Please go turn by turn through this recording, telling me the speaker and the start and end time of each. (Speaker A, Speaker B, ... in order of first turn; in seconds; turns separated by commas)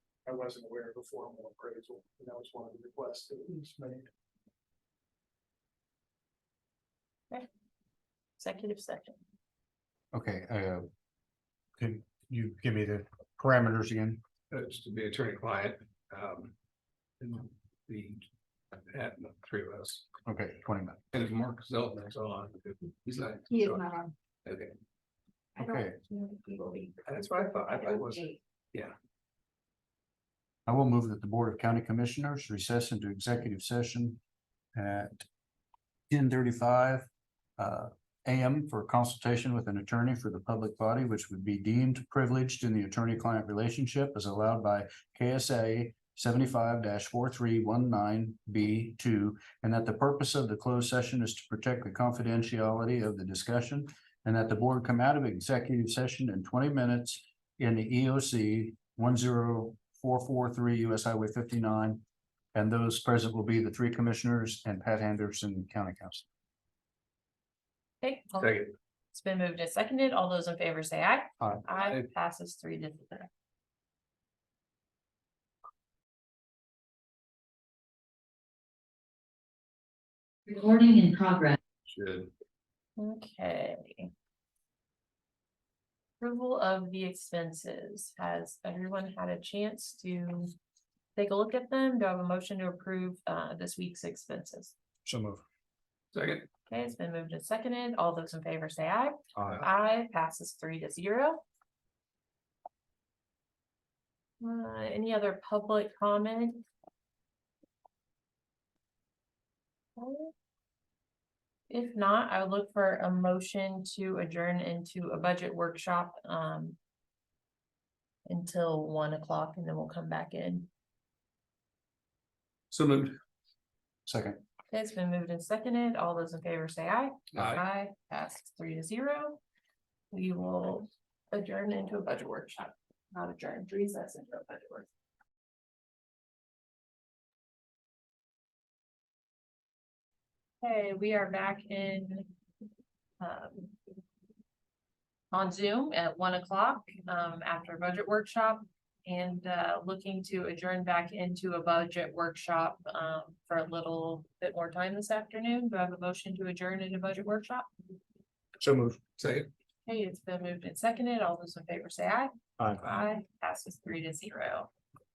Speaker A: 0.2-4.1, Speaker B: 8.4-9.2, Speaker C: 10.1-10.9, Speaker C: 11.8-14.2, Speaker D: 14.5-16.5, Speaker D: 17.2-20.1, Speaker C: 20.2-21.0, Speaker D: 21.1-23.9, Speaker E: 23.5-24.1, Speaker D: 24.4-24.8, Speaker E: 25.6-26.9, Speaker C: 25.6-26.0, Speaker D: 27.0-28.9, Speaker E: 27.7-28.3, Speaker C: 30.6-34.2, Speaker C: 34.8-35.2, Speaker C: 36.1-37.1, Speaker C: 37.6-62.0, Speaker C: 62.5-66.2, Speaker B: 68.0-68.6, Speaker D: 68.4-68.7, Speaker B: 69.1-73.3, Speaker E: 80.5-81.5, Speaker D: 81.8-82.3, Speaker B: 83.0-84.1, Speaker B: 86.2-90.5, Speaker B: 91.2-94.7, Speaker C: 95.1-95.4, Speaker D: 96.1-96.5, Speaker B: 96.7-101.4, Speaker C: 99.4-99.6, Speaker B: 104.4-106.6, Speaker B: 110.0-110.3, Speaker B: 111.7-116.8, Speaker B: 118.2-120.7, Speaker D: 122.7-123.1, Speaker C: 124.0-124.4, Speaker B: 124.7-129.4, Speaker B: 130.1-134.9, Speaker B: 140.6-142.3, Speaker B: 143.2-143.7, Speaker B: 145.3-157.7, Speaker C: 158.6-158.9, Speaker D: 159.2-159.5, Speaker B: 159.8-164.7